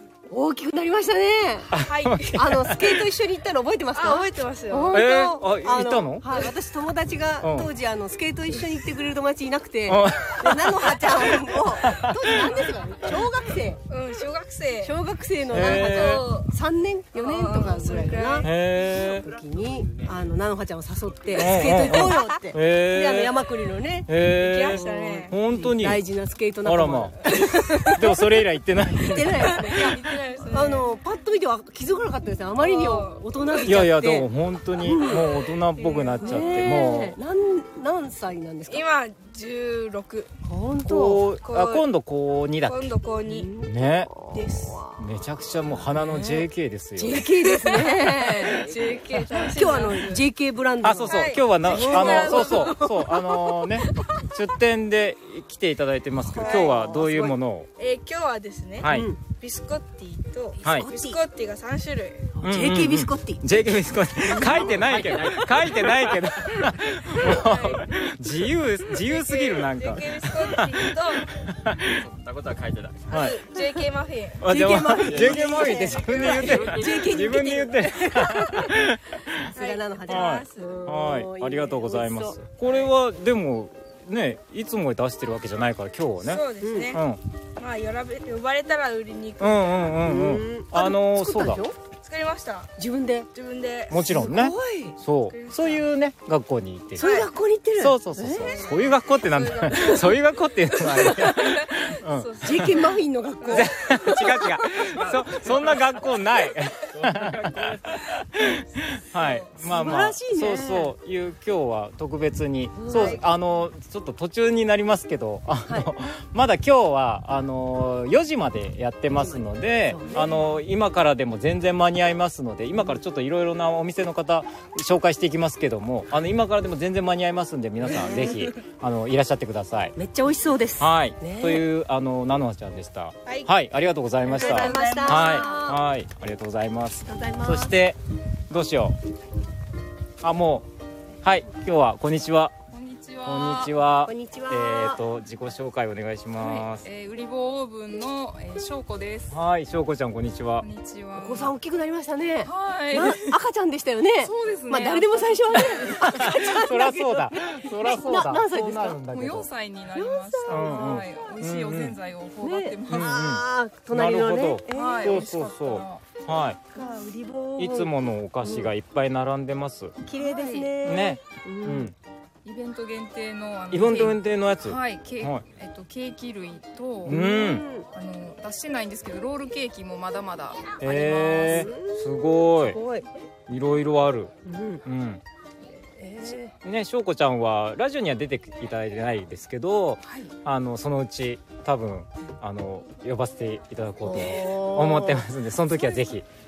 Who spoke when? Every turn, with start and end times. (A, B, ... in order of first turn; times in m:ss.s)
0:00.3-0:01.7 A
0:01.7-0:02.9 B
0:01.7-0:02.4 C
0:02.3-0:13.8 A
0:03.9-0:05.0 C
0:04.9-0:06.3 B
0:07.4-0:07.7 B
0:09.9-0:12.5 B
0:12.3-0:12.7 C
0:13.9-0:14.9 C
0:14.8-0:24.1 A
0:15.5-0:16.2 B
0:15.5-0:16.5 C
0:17.1-0:18.5 C
0:18.4-0:19.2 B
0:21.3-0:23.4 B
0:24.1-0:26.0 B
0:24.3-0:25.3 C
0:24.7-0:28.2 A
0:26.6-0:27.2 B
0:27.9-0:29.8 B
0:29.0-0:30.0 A
0:29.5-0:30.9 C
0:30.5-0:34.3 A
0:32.6-0:33.6 C
0:33.6-0:37.2 B
0:34.8-0:35.2 A
0:35.8-0:36.9 C
0:36.2-0:38.9 A
0:38.7-0:40.3 C
0:40.4-0:41.3 A
0:40.8-0:42.9 B
0:41.4-0:41.8 C
0:42.6-0:43.5 C
0:43.3-0:45.0 A
0:43.6-0:44.1 B
0:44.3-0:44.8 C
0:45.0-0:47.3 B
0:45.9-0:46.4 A
0:47.0-0:48.7 A
0:47.2-0:50.2 C
0:49.4-0:53.3 A
0:50.8-0:57.7 B
0:51.1-0:53.0 C
0:56.3-1:02.3 C
0:56.4-0:57.1 A
0:58.8-0:59.1 B
0:58.9-0:59.2 A
1:00.6-1:01.2 A
1:00.6-1:00.9 B
1:02.4-1:04.8 A
1:02.4-1:12.1 B
1:04.7-1:05.9 D
1:07.2-1:07.9 C
1:08.9-1:11.4 C
1:12.0-1:13.1 D
1:13.1-1:14.4 C
1:13.1-1:13.4 B
1:14.4-1:19.4 B
1:14.4-1:18.7 A
1:15.1-1:15.9 D
1:16.5-1:17.0 D
1:18.2-1:18.7 C
1:19.5-1:20.8 C
1:19.5-1:22.4 A
1:20.1-1:27.2 B
1:26.2-1:27.0 C
1:26.6-1:27.0 A
1:27.6-1:30.0 C
1:29.4-1:31.6 B
1:30.0-1:31.8 A
1:32.0-1:32.7 C
1:32.8-1:33.3 A
1:33.3-1:34.3 C
1:33.9-1:37.1 B
1:34.1-1:35.0 A
1:35.3-1:35.8 C
1:36.9-1:38.5 A
1:37.0-1:37.3 C
1:37.8-1:42.7 B
1:38.3-1:45.4 C
1:42.4-1:44.4 A
1:43.5-2:09.9 B
1:45.4-1:45.8 D
1:47.0-1:47.9 D
1:49.2-1:49.5 C
1:49.6-1:50.9 A
1:52.8-1:53.2 A
1:52.9-1:53.2 C
1:59.1-2:00.5 A
2:07.8-2:08.6 A
2:10.0-2:11.6 A
2:10.8-2:18.0 B
2:14.3-2:15.8 A
2:14.3-2:15.5 C
2:17.0-2:17.7 A
2:18.5-2:19.0 B
2:20.2-2:20.7 B
2:21.2-2:22.5 B
2:22.7-2:23.7 E
2:23.2-2:26.9 B
2:24.0-2:25.0 A
2:26.4-2:29.3 E
2:29.3-2:30.6 B
2:30.6-2:31.5 E
2:31.1-2:39.0 A
2:32.4-2:33.3 E
2:34.2-2:36.1 E
2:36.0-2:39.5 B
2:38.6-2:43.2 E
2:39.9-2:41.1 A
2:40.5-2:42.0 B
2:42.4-2:45.2 A
2:42.9-2:46.6 B
2:44.7-2:46.0 E
2:46.7-2:47.9 A
2:47.6-2:49.9 B
2:48.4-2:48.7 A
2:50.0-2:51.9 A
2:50.1-2:50.7 E
2:50.8-2:51.9 B
2:52.4-2:57.2 E
2:53.7-2:55.4 B
2:57.0-2:57.9 A
2:57.0-2:57.6 B
2:57.9-3:01.7 E
3:00.8-3:02.8 B
3:01.4-3:03.0 A
3:03.5-3:04.3 B
3:04.4-3:04.8 A
3:04.8-3:05.2 B
3:06.0-3:06.5 A
3:06.2-3:16.2 B
3:14.0-3:15.2 A